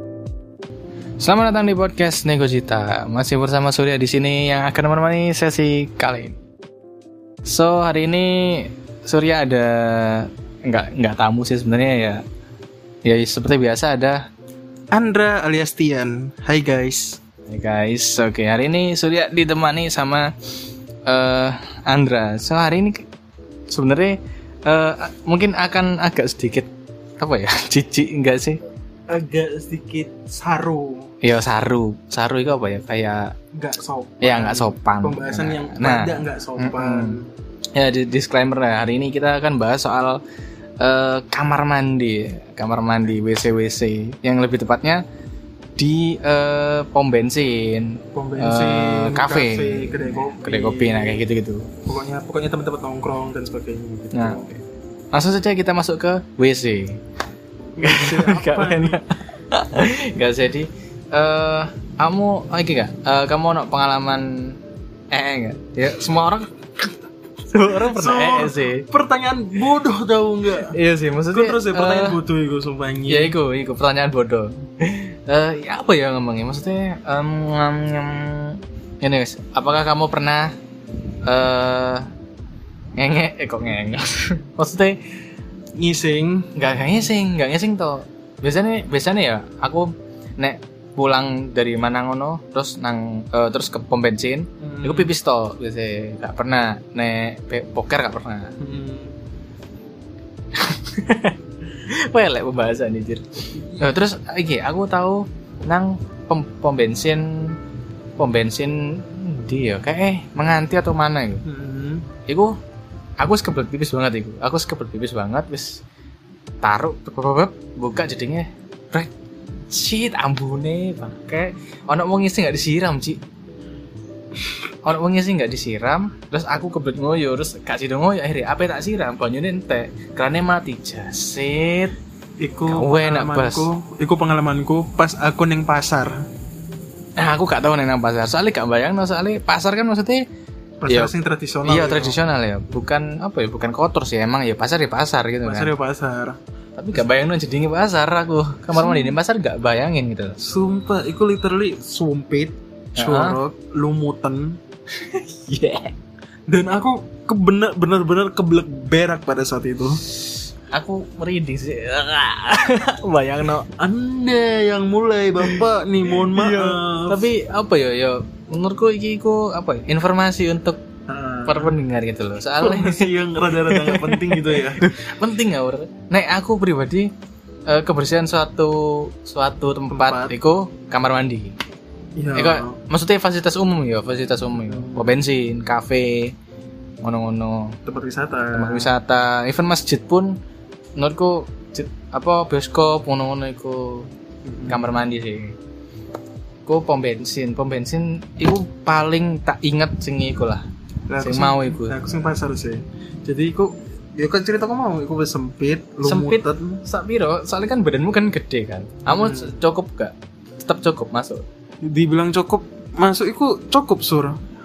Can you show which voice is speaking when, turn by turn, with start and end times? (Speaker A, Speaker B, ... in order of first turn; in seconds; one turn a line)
Speaker A: 1.2-6.4
Speaker A: 7.5-12.2
Speaker A: 13.1-14.3
Speaker B: 14.9-17.2
Speaker A: 17.5-20.3
Speaker A: 21.1-23.1
Speaker A: 23.7-28.6
Speaker B: 29.1-31.1
Speaker A: 31.2-33.3
Speaker B: 33.5-37.3
Speaker A: 34.2-37.2
Speaker A: 37.8-40.2
Speaker A: 40.8-45.0
Speaker A: 45.8-51.7
Speaker B: 48.1-51.2
Speaker B: 51.9-54.5
Speaker A: 54.1-54.6
Speaker A: 55.1-57.0
Speaker A: 57.8-64.6
Speaker B: 57.8-59.0
Speaker A: 65.1-66.5
Speaker A: 67.5-68.9
Speaker B: 67.8-70.8
Speaker A: 70.6-72.2
Speaker B: 71.3-73.3
Speaker A: 73.1-80.5
Speaker A: 81.2-82.1
Speaker A: 83.0-85.0
Speaker B: 85.8-86.5
Speaker A: 86.5-98.5
Speaker B: 94.6-95.1
Speaker B: 98.6-99.1
Speaker A: 100.5-107.6
Speaker A: 108.2-111.5
Speaker B: 111.5-112.1
Speaker A: 112.3-112.5
Speaker A: 113.2-115.8
Speaker A: 116.6-119.1
Speaker A: 119.7-123.2
Speaker A: 124.8-131.9
Speaker B: 132.4-136.2
Speaker A: 132.7-133.7
Speaker A: 137.2-140.3
Speaker B: 140.8-142.2
Speaker A: 140.9-145.7
Speaker B: 145.4-146.4
Speaker A: 146.8-150.4
Speaker B: 148.7-149.2
Speaker B: 150.4-154.6
Speaker A: 153.0-153.4
Speaker A: 155.0-155.9
Speaker B: 156.5-160.0
Speaker A: 160.7-163.7
Speaker B: 163.8-167.2
Speaker A: 166.2-170.8
Speaker B: 171.1-171.8
Speaker A: 171.5-177.1
Speaker B: 172.6-174.9
Speaker A: 177.7-181.6
Speaker B: 179.9-180.4
Speaker B: 182.2-182.8
Speaker A: 182.3-186.3
Speaker B: 184.8-185.2
Speaker A: 187.0-187.8
Speaker B: 187.9-188.9
Speaker A: 188.5-190.4
Speaker A: 191.0-194.1
Speaker B: 194.4-194.9
Speaker A: 194.7-195.6
Speaker A: 196.7-200.7
Speaker B: 201.1-206.8
Speaker A: 201.2-202.0
Speaker A: 206.0-211.4
Speaker B: 209.1-209.6
Speaker B: 211.8-214.4